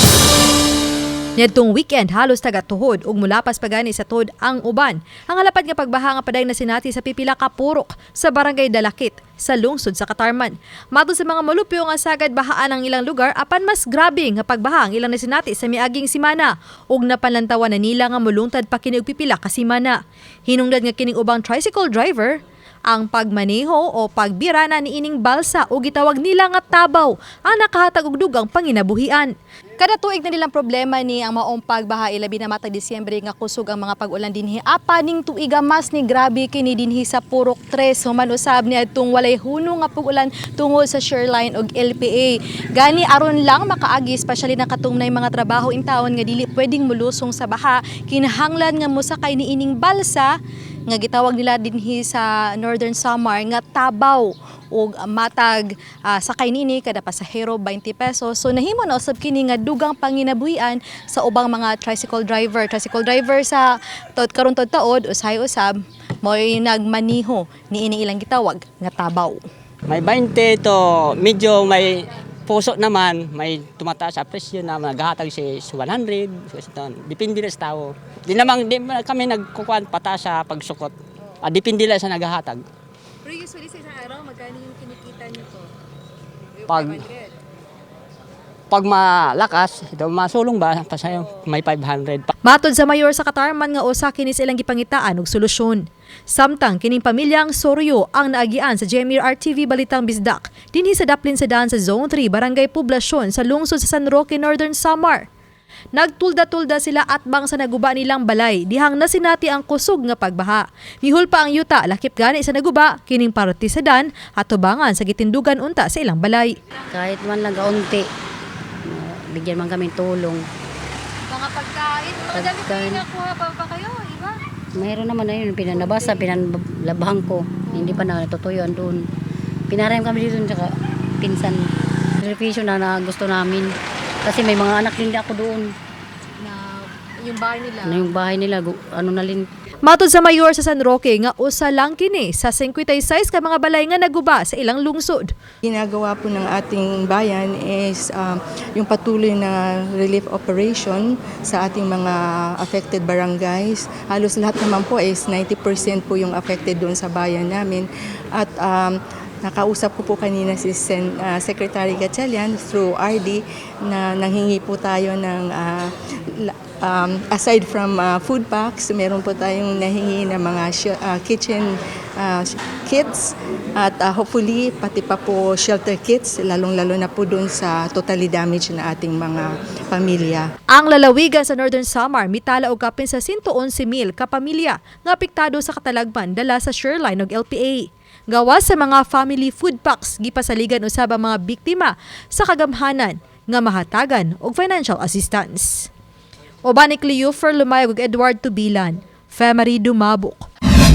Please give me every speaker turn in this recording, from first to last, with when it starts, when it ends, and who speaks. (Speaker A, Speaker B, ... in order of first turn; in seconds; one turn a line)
Speaker A: 1.4-50.4
Speaker A: 50.9-69.4
Speaker B: 69.9-82.6
Speaker A: 83.3-85.7
Speaker B: 86.7-87.0
Speaker B: 88.7-92.3
Speaker A: 92.4-105.3
Speaker A: 105.9-116.6
Speaker C: 116.9-118.0
Speaker C: 118.9-120.4
Speaker A: 121.3-124.4
Speaker C: 122.3-123.0
Speaker C: 124.8-129.0
Speaker C: 129.7-131.6
Speaker C: 132.2-133.7
Speaker C: 134.2-135.7
Speaker A: 136.4-138.0
Speaker C: 137.8-139.4
Speaker A: 139.8-145.3
Speaker D: 145.6-180.5
Speaker A: 180.7-195.9
Speaker A: 196.6-200.5